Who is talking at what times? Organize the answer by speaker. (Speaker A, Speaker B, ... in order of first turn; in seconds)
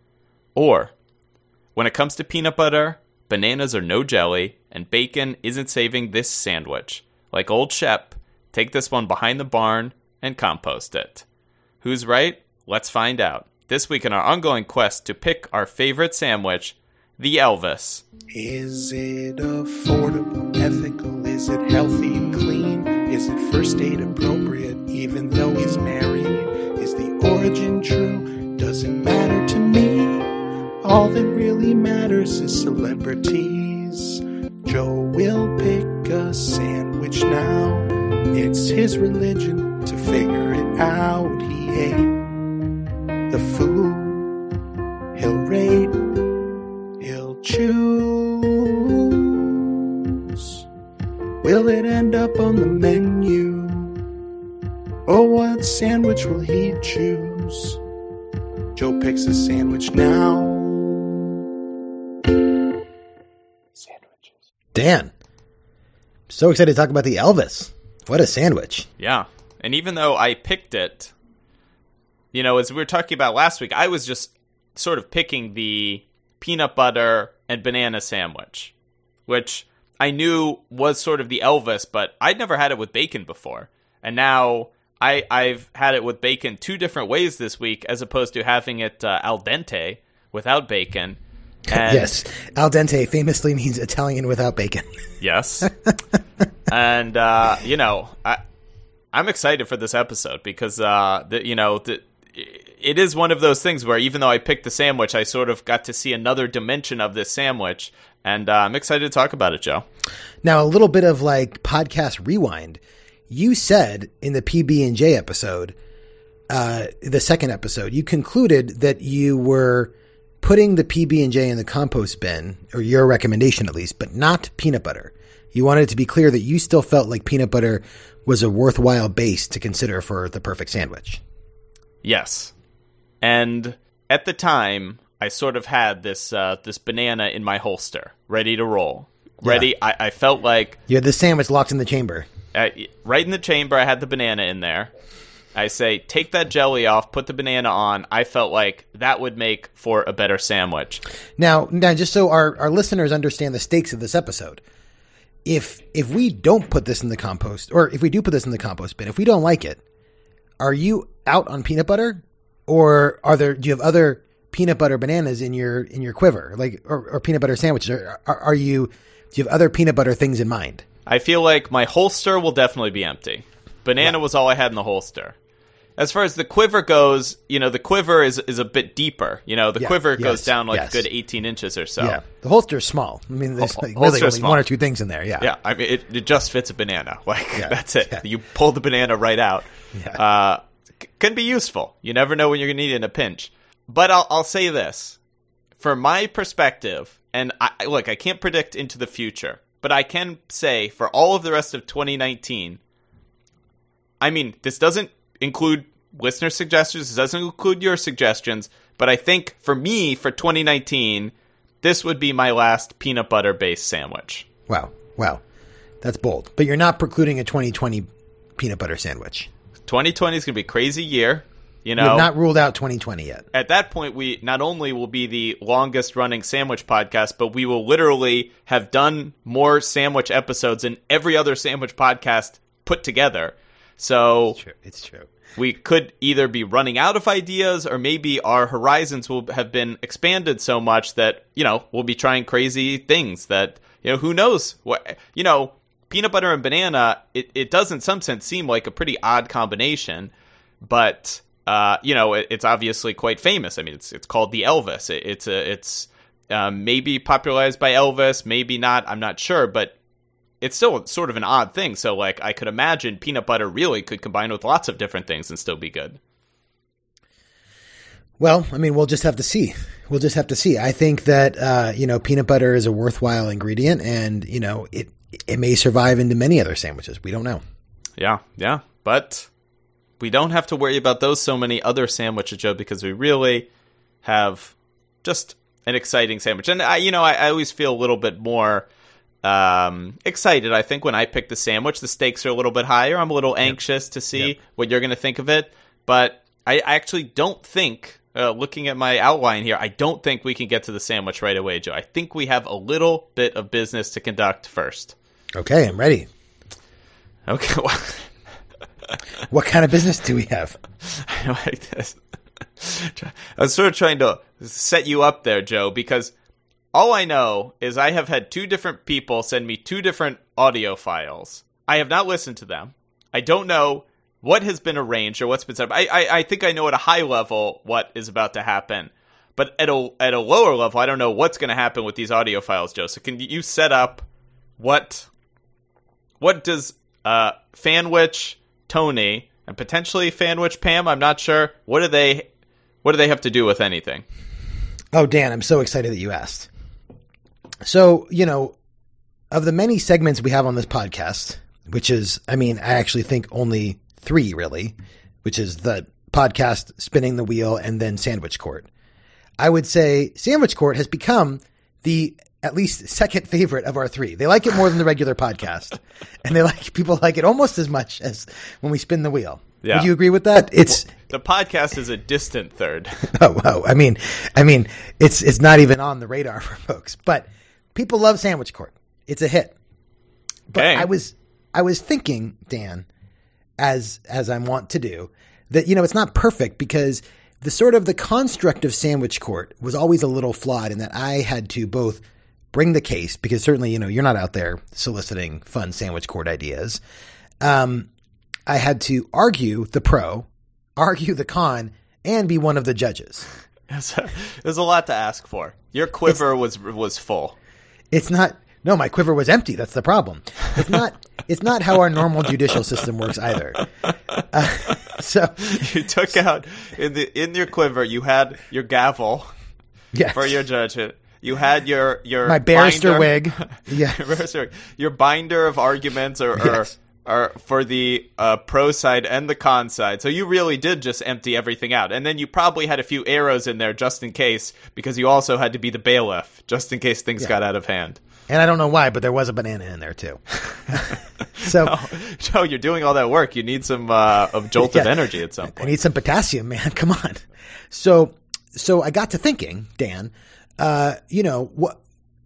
Speaker A: 0.6-0.9, 1.7-11.2, 11.8-18.0, 69.0-71.1, 72.3-78.7, 79.3-92.2, 95.2-95.7, 96.7-98.4, 99.1-109.8, 132.0-132.5, 133.2-140.8, 142.5-144.9, 145.5-151.0, 171.1-175.3, 176.0-182.2, 183.6-184.6, 185.4-195.2, 195.8-202.8, 204.2-214.4, 219.9-222.3, 223.5-234.6, 235.6-250.3, 250.8-259.9, 260.6-266.2, 278.2-279.5, 280.2-283.7, 284.2-288.9, 289.4-305.1, 307.5-308.3, 311.0-312.2, 312.8-316.3, 316.9-334.2, 334.8-335.3, 336.4-342.5, 343.0-344.2, 369.8-370.1, 370.9-373.3, 380.7-381.1, 403.9-407.5, 415.6-419.5, 420.3-438.2, 441.6-446.0
Speaker B: 18.3-30.3, 30.8-42.1, 43.3-44.3, 45.1-46.0, 47.0-50.6, 51.4-54.0, 55.0-57.8, 58.7-61.1, 63.8-64.4
Speaker C: 64.7-65.1, 66.3-68.9, 91.7-94.9, 95.7-95.9, 110.4-115.8, 116.5-131.2, 140.9-142.3, 151.4-154.6, 155.4-159.8, 160.6-170.8, 179.8-181.1, 182.0-185.5, 187.6-188.2, 189.9-190.2, 214.7-215.4, 216.0-219.5, 222.0-223.4, 234.5-235.3, 268.4-277.6, 305.5-306.3, 309.5-310.8, 345.1-346.7, 347.8-348.8, 349.5-358.9, 359.6-371.1, 373.3-379.7, 380.7-383.1, 383.8-397.0, 397.6-398.1, 398.7-403.5, 408.1-413.8, 414.5-416.0, 420.1-420.6, 422.4-424.3, 426.6-426.9, 438.5-441.9, 444.8-452.0